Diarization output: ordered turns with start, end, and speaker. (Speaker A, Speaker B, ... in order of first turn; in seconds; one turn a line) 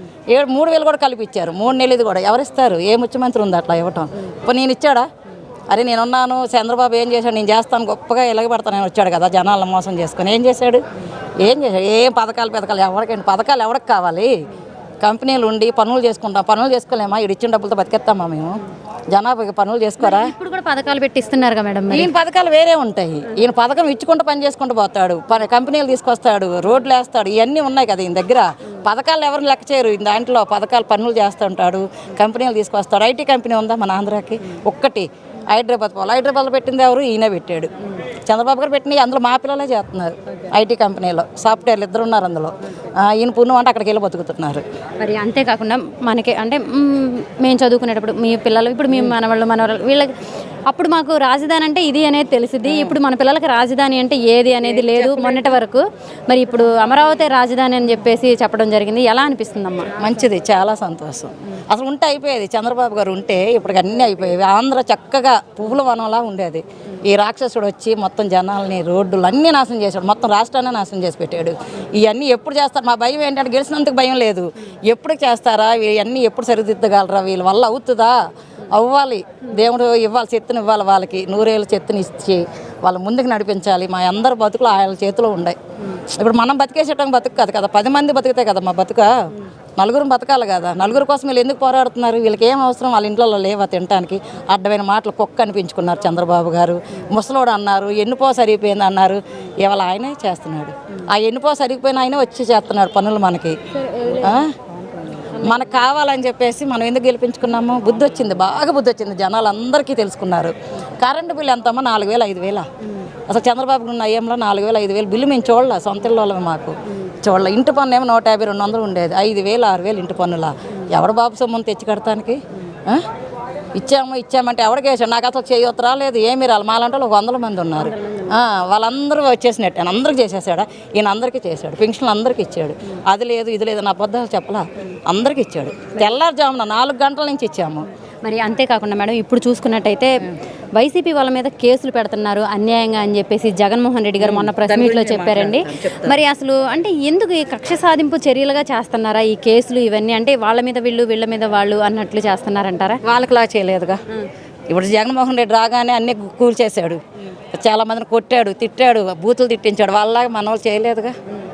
Speaker A: 0.3-5.1
Speaker A: 5.7-10.8
Speaker A: 11.4-14.3
Speaker A: 15.0-20.3
Speaker B: 20.0-22.1
Speaker A: 21.9-37.7
Speaker A: 38.3-44.6
Speaker B: 45.0-50.1
Speaker B: 50.7-60.0
Speaker A: 52.7-53.0
Speaker A: 54.7-55.6
Speaker A: 60.0-78.2
Speaker A: 78.7-89.2
Speaker A: 89.8-104.6
Speaker A: 105.3-112.7
Speaker A: 113.3-123.1
Speaker A: 123.7-137.9
Speaker B: 138.2-140.2
Speaker B: 140.8-153.0
Speaker A: 144.2-146.2
Speaker A: 153.0-154.0
Speaker A: 154.7-157.0
Speaker A: 157.5-161.2